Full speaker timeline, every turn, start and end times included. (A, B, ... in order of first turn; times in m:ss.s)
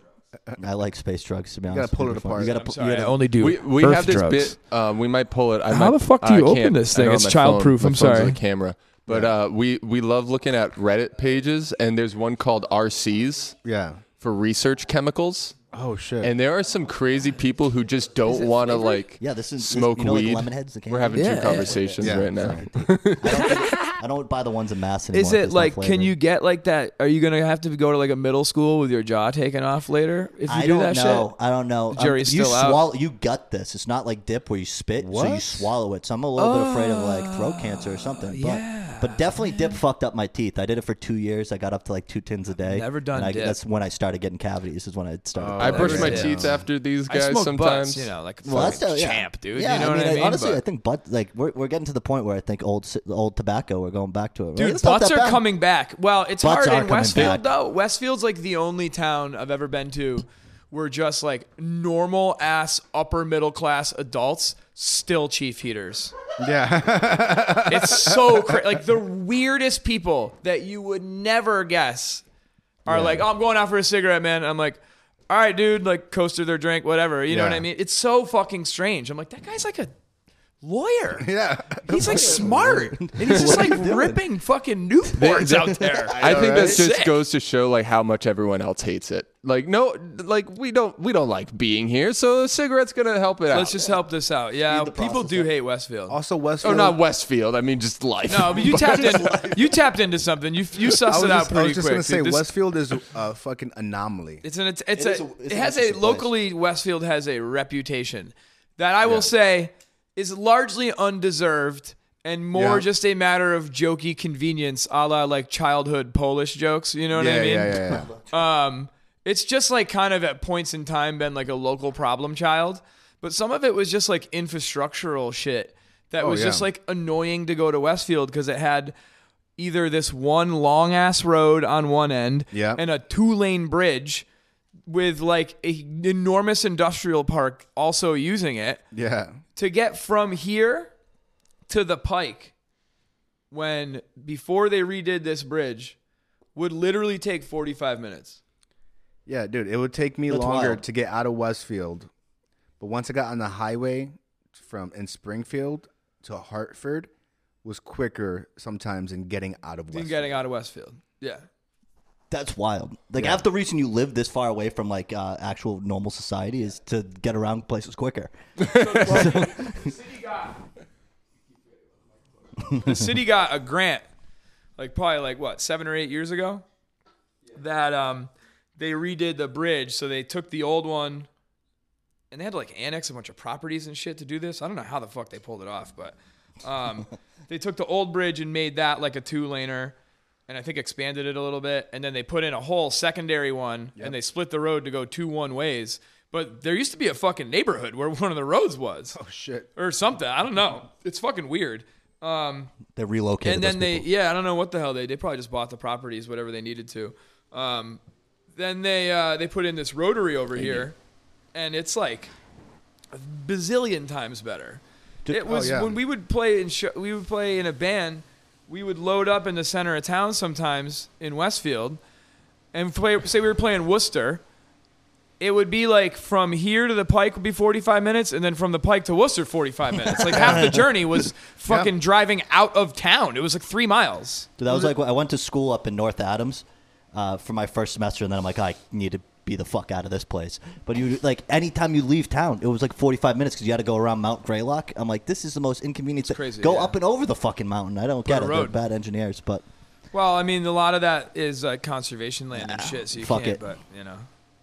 0:00.6-0:03.2 A
0:01.7-0:02.5 B
0:02.4-0:04.6 C
0:03.4-0:13.6 D
0:05.7-0:08.4 C
0:13.6-0:14.0 B
0:14.2-0:15.6 D
0:15.7-0:16.3 B
0:16.2-0:23.7 D
0:18.3-0:19.0 C
0:19.0-0:26.2 A
0:21.1-0:21.9 C
0:22.0-0:22.7 B
0:23.3-0:24.0 C
0:25.1-0:31.3 C
0:30.5-0:46.5 A
0:31.9-0:32.8 C
0:35.0-0:35.7 B
0:36.4-0:39.8 C
0:42.6-0:43.6 C
0:45.4-0:46.6 B
0:45.6-0:48.1 D
0:45.7-0:46.4 C
0:47.1-0:50.6 C
0:48.4-0:55.4 A
0:54.6-1:06.2 C
0:56.4-0:57.4 A
1:06.4-1:08.6 B
1:07.7-1:12.2 C
1:12.9-1:19.9 C
1:12.9-1:13.2 B
1:17.3-1:17.6 B
1:20.6-1:21.3 C
1:21.2-1:22.5 B
1:21.8-1:27.2 C
1:21.9-1:24.2 A
1:25.2-1:33.8 D
1:26.1-1:26.8 B
1:33.5-1:36.8 C
1:34.7-1:35.5 A
1:36.1-1:37.0 B
1:36.6-1:39.5 D
1:38.3-1:42.5 C
1:38.7-1:39.7 A
1:41.1-1:44.4 B
1:44.4-2:09.0 C
1:45.0-1:46.3 A
1:49.0-1:49.3 B
1:52.5-1:52.8 B
1:57.1-1:58.1 B
1:57.9-1:58.5 A
2:06.2-2:06.7 B
2:09.6-2:14.3 C
2:12.5-2:12.8 B
2:14.9-2:18.8 C
2:18.9-2:19.4 B
2:19.6-2:20.9 C
2:21.7-2:22.5 C
2:23.5-2:26.0 C
2:26.6-2:28.4 C
2:29.3-2:32.1 B
2:30.3-2:30.8 A
2:32.8-2:37.1 B
2:37.6-2:40.4 B
2:39.9-2:41.4 C
2:42.3-2:48.3 A
2:43.2-2:43.4 B
2:48.6-2:50.7 C
2:48.9-2:49.9 A
2:52.7-2:54.0 C
2:54.8-2:56.6 C
2:57.5-3:01.3 C
3:02.3-3:10.0 C
3:10.5-3:19.2 C
3:19.1-3:19.7 B
3:19.8-3:22.8 C
3:22.9-3:24.1 A
3:23.4-3:28.0 C
3:28.6-3:31.0 C
3:30.6-3:30.9 A
3:31.5-3:32.3 C
3:33.1-3:42.0 C
3:35.5-3:36.0 B
3:42.7-3:44.4 C
3:45.4-3:54.9 C
3:50.1-3:50.9 A
3:54.6-4:09.6 A
4:06.2-4:07.0 C
4:08.2-4:08.8 C
4:10.1-4:14.3 C
4:12.5-4:13.6 A